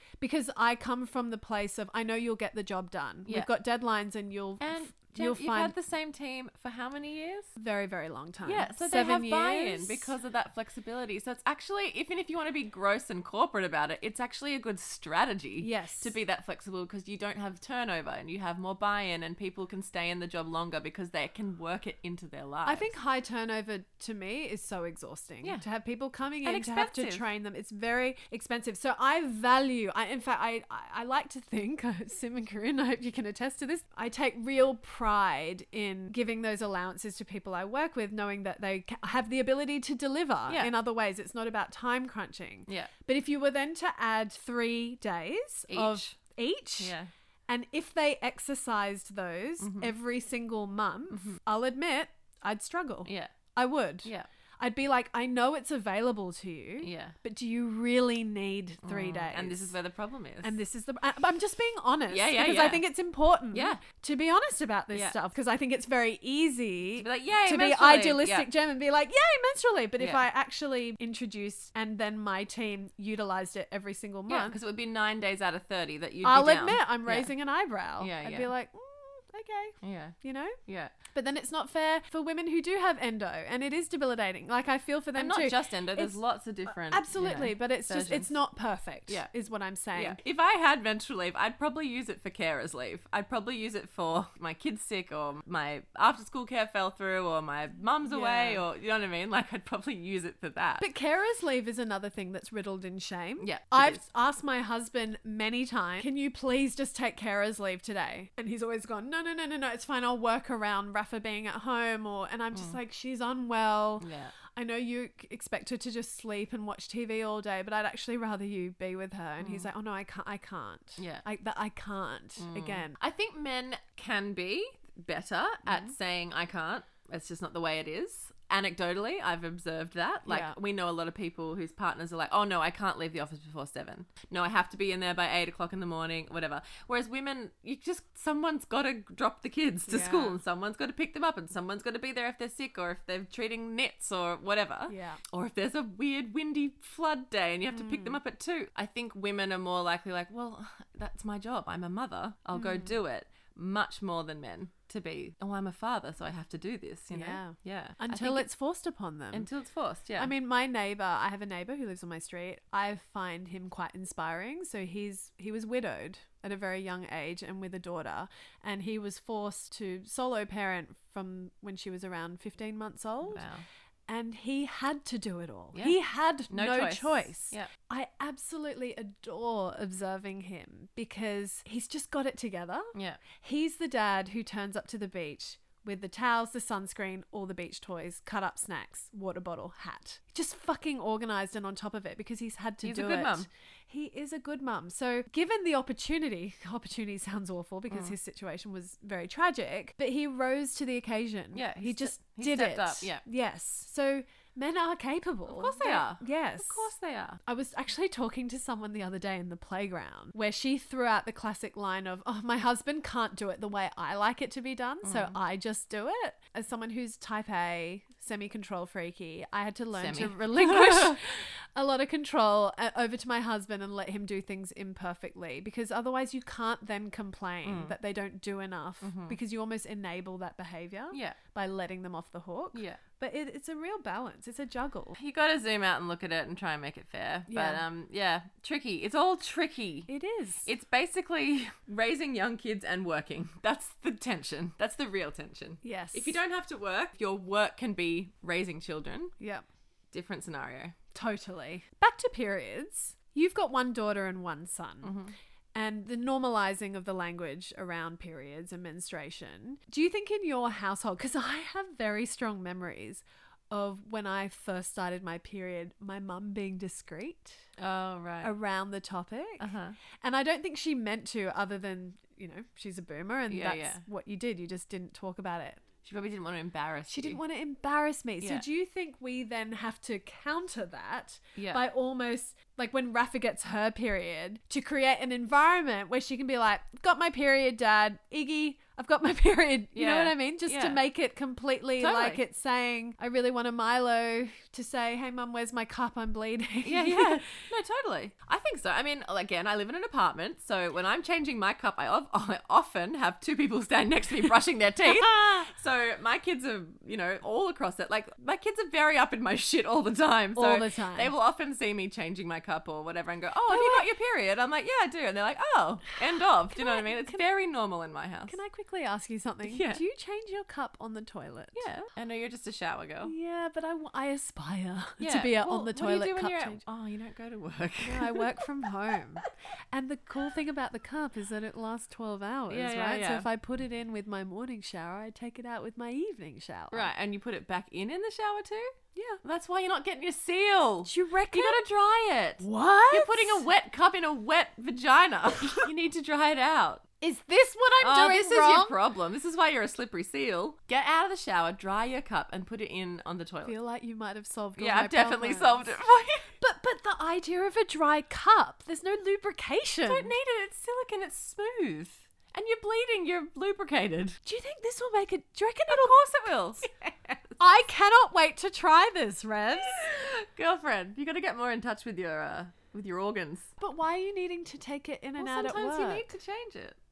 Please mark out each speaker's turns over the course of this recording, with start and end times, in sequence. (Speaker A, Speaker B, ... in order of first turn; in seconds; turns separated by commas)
Speaker A: 0.2-5.7, Speaker B: 4.6-7.5, Speaker A: 7.5-10.1, Speaker B: 8.4-22.9, Speaker A: 15.6-16.1, Speaker A: 22.6-46.9, Speaker B: 26.4-27.2, Speaker B: 45.7-46.1, Speaker B: 46.8-47.1, Speaker A: 47.5-59.7, Speaker B: 49.6-49.9, Speaker B: 51.1-51.4, Speaker B: 53.0-53.3, Speaker B: 56.8-57.1, Speaker B: 58.8-60.5, Speaker A: 60.4-74.5, Speaker B: 62.1-62.8, Speaker B: 63.5-63.8, Speaker B: 67.0-68.5, Speaker B: 70.0-70.2, Speaker B: 74.3-77.3, Speaker A: 76.2-80.6, Speaker B: 78.0-78.5, Speaker B: 79.8-80.1, Speaker B: 80.7-80.9, Speaker A: 81.1-86.2, Speaker B: 85.2-88.3, Speaker A: 86.7-90.2, Speaker B: 89.9-100.8, Speaker A: 98.0-98.6, Speaker A: 100.8-123.0, Speaker B: 103.4-104.0, Speaker B: 114.0-114.3, Speaker B: 119.4-119.7, Speaker B: 121.0-121.2, Speaker B: 122.4-158.5, Speaker A: 125.7-125.9, Speaker A: 130.3-130.5, Speaker A: 139.9-140.4, Speaker A: 144.9-145.2, Speaker A: 147.7-148.2, Speaker A: 152.5-152.9, Speaker A: 157.1-159.5, Speaker B: 159.3-160.3, Speaker A: 160.2-173.4, Speaker B: 173.2-173.6, Speaker A: 174.1-206.9, Speaker B: 176.5-177.7, Speaker B: 182.9-183.2, Speaker B: 192.8-193.5, Speaker B: 197.9-198.1, Speaker B: 201.5-203.2, Speaker B: 205.5-207.4, Speaker A: 207.4-235.2, Speaker B: 215.0-215.3, Speaker B: 219.9-221.2, Speaker B: 227.6-227.9, Speaker B: 229.0-229.4, Speaker B: 231.1-231.4, Speaker B: 232.7-233.0, Speaker B: 235.2-240.1, Speaker A: 237.5-237.8, Speaker A: 240.1-240.7, Speaker B: 240.6-249.3, Speaker A: 245.8-246.4, Speaker A: 249.4-249.6, Speaker B: 250.1-250.9, Speaker A: 251.1-255.2, Speaker B: 255.0-255.3, Speaker A: 255.7-267.7, Speaker B: 267.8-268.5, Speaker A: 268.4-269.7, Speaker B: 269.6-270.0, Speaker A: 270.2-275.8, Speaker B: 273.5-274.0, Speaker B: 276.0-277.4, Speaker A: 277.1-297.5, Speaker B: 281.6-281.8, Speaker B: 289.9-291.0, Speaker B: 292.0-292.4, Speaker B: 296.8-318.6, Speaker A: 305.1-305.7, Speaker A: 310.5-311.3, Speaker A: 313.7-314.1, Speaker A: 316.7-317.4, Speaker A: 318.5-321.8, Speaker B: 319.6-320.0, Speaker B: 321.7-323.3, Speaker A: 323.2-326.8, Speaker B: 325.2-328.4, Speaker A: 328.0-337.1, Speaker B: 332.7-333.5, Speaker B: 336.9-347.0, Speaker A: 339.1-339.4, Speaker A: 341.0-341.9, Speaker A: 342.6-343.6, Speaker A: 347.2-348.9, Speaker B: 348.0-353.7, Speaker A: 353.6-355.9, Speaker B: 354.8-356.5, Speaker A: 356.6-360.4, Speaker B: 360.0-364.4, Speaker A: 364.4-366.2, Speaker B: 365.9-367.6, Speaker A: 367.6-370.0, Speaker B: 369.8-373.7, Speaker A: 373.8-376.3, Speaker B: 375.4-377.0